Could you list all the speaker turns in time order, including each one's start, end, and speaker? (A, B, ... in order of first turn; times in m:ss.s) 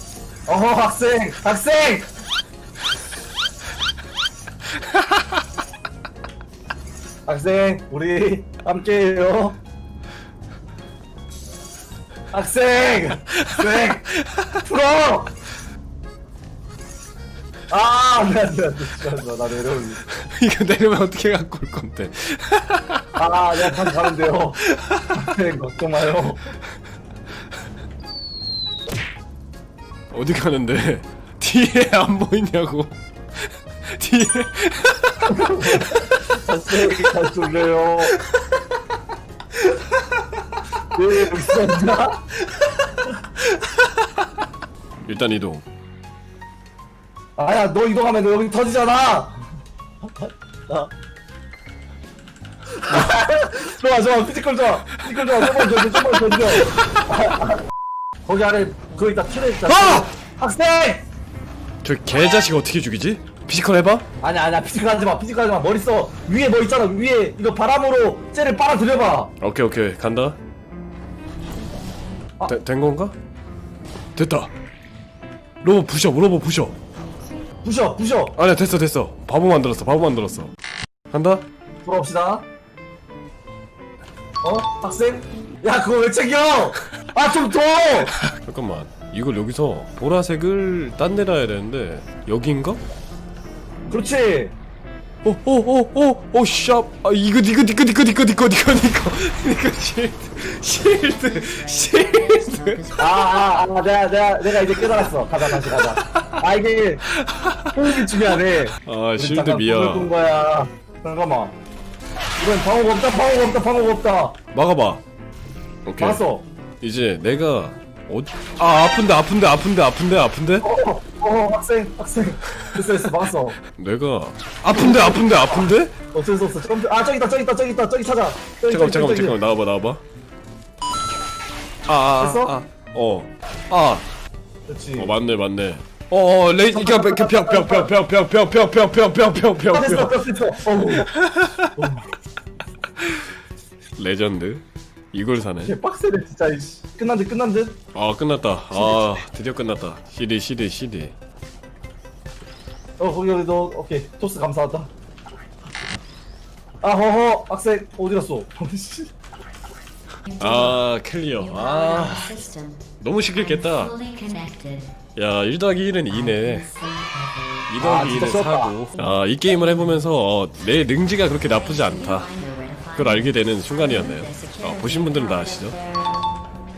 0:00.5-0:02.1 A
0:07.2-0:09.6 A
0:12.3-0:14.1 A
0:13.4-0:14.5 B
0:14.6-0:15.3 A
0:17.7-0:20.0 A
0:20.1-0:23.2 B
0:23.2-0:24.6 A
0:24.7-0:25.1 B
0:25.1-0:26.4 A
0:30.1-0:33.0 B
0:33.9-0:36.1 B
0:35.3-0:38.1 A
0:41.0-0:42.2 A
0:45.0-0:45.6 B
0:47.4-0:49.4 A
0:50.0-0:50.9 A
0:52.8-0:57.6 A
0:58.2-1:01.0 A
0:59.7-1:00.1 B
1:01.8-1:04.0 B
1:04.2-1:09.3 A
1:09.4-1:10.4 B
1:12.4-1:13.1 B
1:14.2-1:14.5 B
1:15.6-1:16.8 B
1:17.6-1:18.3 A
1:18.3-1:20.5 B
1:21.1-1:21.4 B
1:21.8-1:22.4 A
1:24.4-1:28.1 A
1:28.3-1:32.8 B
1:33.9-1:34.5 A
1:35.2-1:42.8 B
1:41.2-1:43.3 C
1:43.0-1:47.0 A
1:45.6-1:46.3 B
1:47.1-1:47.8 B
1:47.7-1:51.6 A
1:48.8-1:50.1 B
1:52.4-1:54.4 A
1:54.5-1:55.0 B
1:55.8-1:56.2 B
1:56.0-1:56.4 A
1:56.8-2:00.7 B
2:00.6-2:03.6 A
2:03.7-2:06.0 B
2:04.7-2:05.2 A
2:06.1-2:09.4 A
2:08.7-2:10.0 B
2:11.9-2:14.0 B
2:12.2-2:12.6 A
2:14.7-2:15.1 A
2:15.0-2:20.3 B
2:16.7-2:17.9 A
2:19.7-2:21.1 A
2:20.9-2:21.8 B
2:24.0-2:25.7 B
2:25.6-2:27.8 A
2:27.9-2:31.1 B
2:28.7-2:29.1 A
2:33.0-2:34.9 A
2:36.8-2:39.1 A
2:40.3-2:40.8 C
2:40.4-2:42.4 B
2:41.4-2:42.8 C
2:43.0-2:43.9 B
2:43.5-2:45.0 C
2:45.1-2:46.7 B
2:46.1-2:47.6 C
2:47.7-2:52.3 B
2:47.8-2:48.7 A
2:51.4-2:56.3 C
2:52.9-2:55.8 B